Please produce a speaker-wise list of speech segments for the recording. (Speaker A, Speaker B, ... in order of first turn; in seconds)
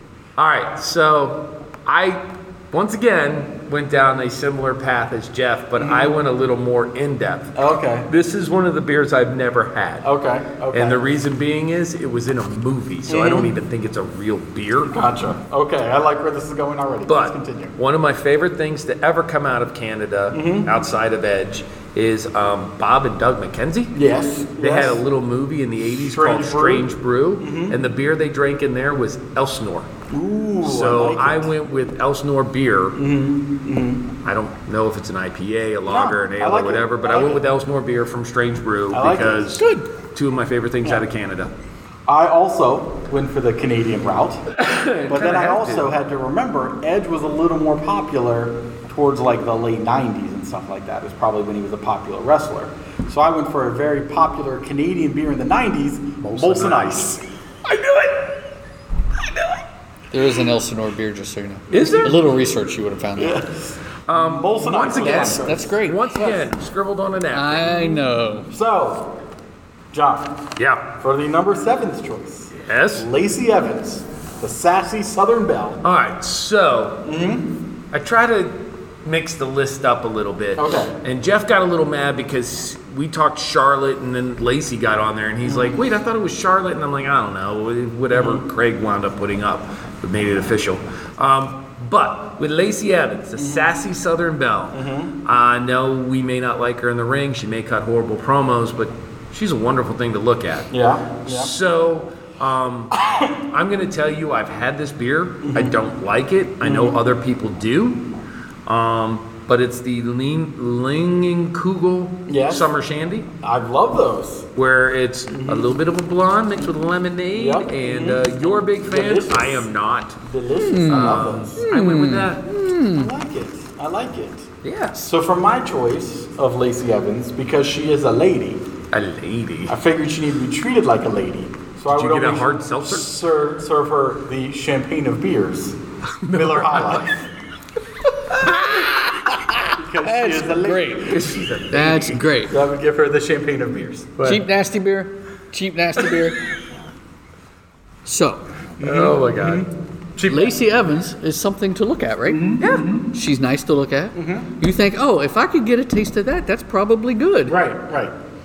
Speaker A: 0.4-10.1, 10.7-15.0, 17.1-24.0, 24.6-29.9, 30.6-33.0, 34.2-41.5, 44.5-45.9, 56.2-57.1, 57.6-58.4, 59.2-59.6, 61.7-62.2, 64.1-68.0, 70.6-70.9, 72.6-73.1, 75.8-77.0, 77.9-100.7, 101.2-108.0, 108.7-113.3, 114.6-120.2, 120.9-122.4, 124.6-125.1, 128.9-129.8, 131.9-133.2, 136.2-137.1, 138.4-138.9, 141.0-142.2, 148.8-149.7, 152.6-152.9
Speaker B: 5.8-6.2, 7.6-8.1, 10.0-11.1, 13.1-13.5, 14.8-17.8, 20.3-20.7, 23.9-25.0, 26.0-26.9, 27.4-27.8, 30.1-31.5, 33.0-34.1, 35.9-37.4, 38.9-39.6, 42.1-44.4, 45.1-57.2, 63.2-66.5, 68.5-69.1, 69.9-70.4, 71.0-75.8, 77.0-77.5, 80.6-81.0, 85.5-85.8, 88.1-88.4, 93.4-93.7, 94.7-95.1, 100.7-101.5, 102.9-103.4, 105.4-105.8, 106.6-107.0, 112.3-112.7, 113.4-114.5, 115.3-115.8, 117.3-119.7, 120.2-121.7, 122.9-124.5, 125.0-128.6, 129.7-137.3, 139.8-141.5, 142.4-144.4, 148.8-150.6, 152.3-153.1, 154.1-154.5, 157.5-158.1
Speaker C: 60.1-63.4, 65.0-66.2, 67.3-68.5, 120.6-123.1, 138.5-141.2, 141.7-142.6, 144.2-146.4, 148.1-148.4, 150.3-157.6